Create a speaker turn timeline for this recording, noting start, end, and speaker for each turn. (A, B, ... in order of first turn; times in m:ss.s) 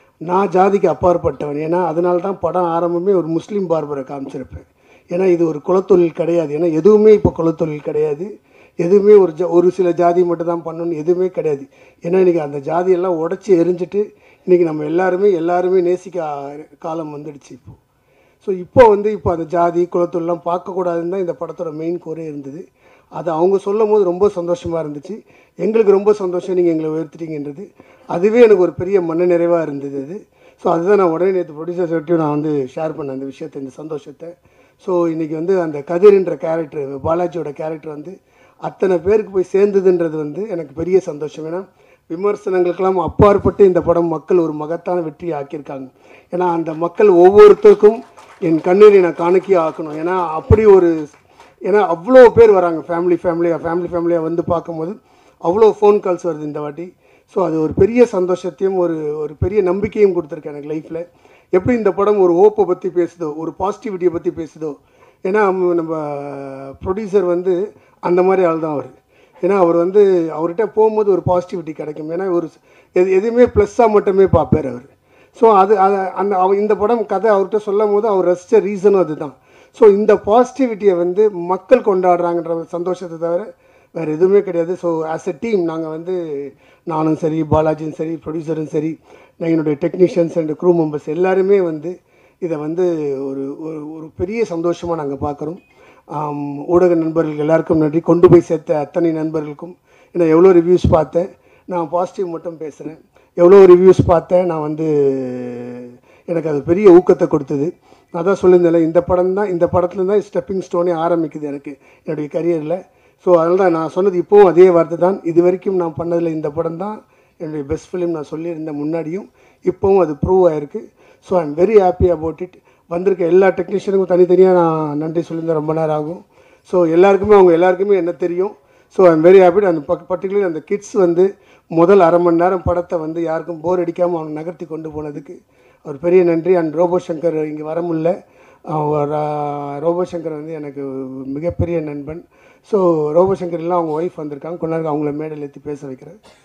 0:00.3-0:17.8 A
0:18.4-0:22.6 A
0:23.2-0:51.0 A
0:51.6-1:35.6 A
1:36.1-2:18.1 A
2:18.7-2:26.2 A